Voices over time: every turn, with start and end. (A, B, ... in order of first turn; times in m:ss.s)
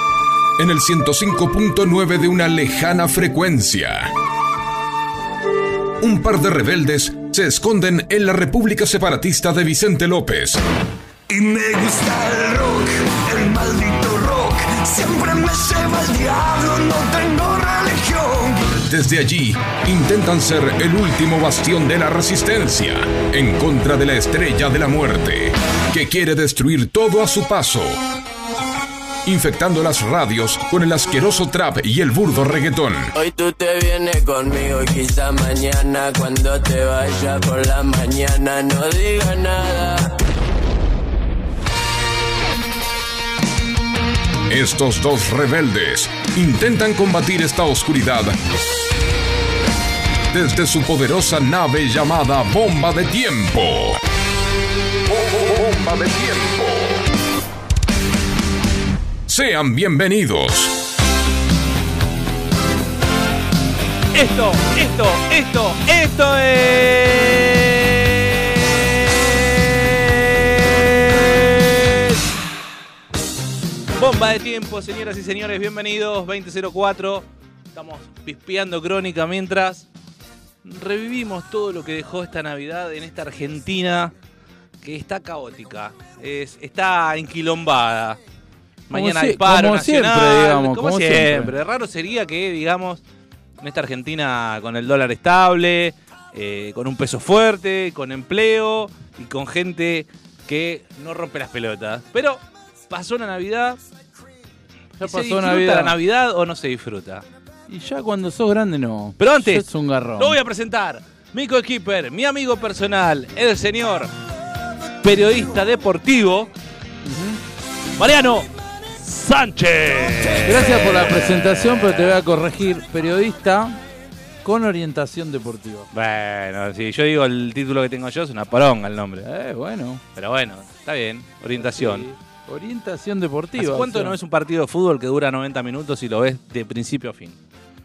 0:00.6-0:04.1 A
0:06.0-0:10.6 A
0:11.3-0:18.7 B
0:18.8-0:28.0 A
0:29.2-0:33.1 A
0:33.1-0:40.1 C
0:44.5-0:48.4 A
0:50.3-0:54.0 A
0:55.1-0:57.0 A
0:59.3-1:00.8 A
1:04.1-1:12.2 D
1:14.0-1:19.8 D
1:20.6-1:24.1 D
1:24.8-1:28.2 D
1:28.9-1:33.0 D
1:28.9-1:31.5 E
1:33.6-1:43.8 D
1:45.0-1:45.9 E
1:45.0-1:47.2 D
1:47.7-1:50.4 E
1:49.2-1:49.6 D
1:50.2-1:54.1 D
1:55.0-1:56.5 D
1:57.0-1:57.4 E
1:58.0-1:58.5 D
1:59.0-2:02.2 D
2:00.4-2:03.8 E
2:04.4-2:05.9 E
2:05.9-2:09.2 D
2:09.2-2:10.0 E
2:10.2-2:12.0 D
2:11.5-2:14.2 E
2:13.6-2:17.4 D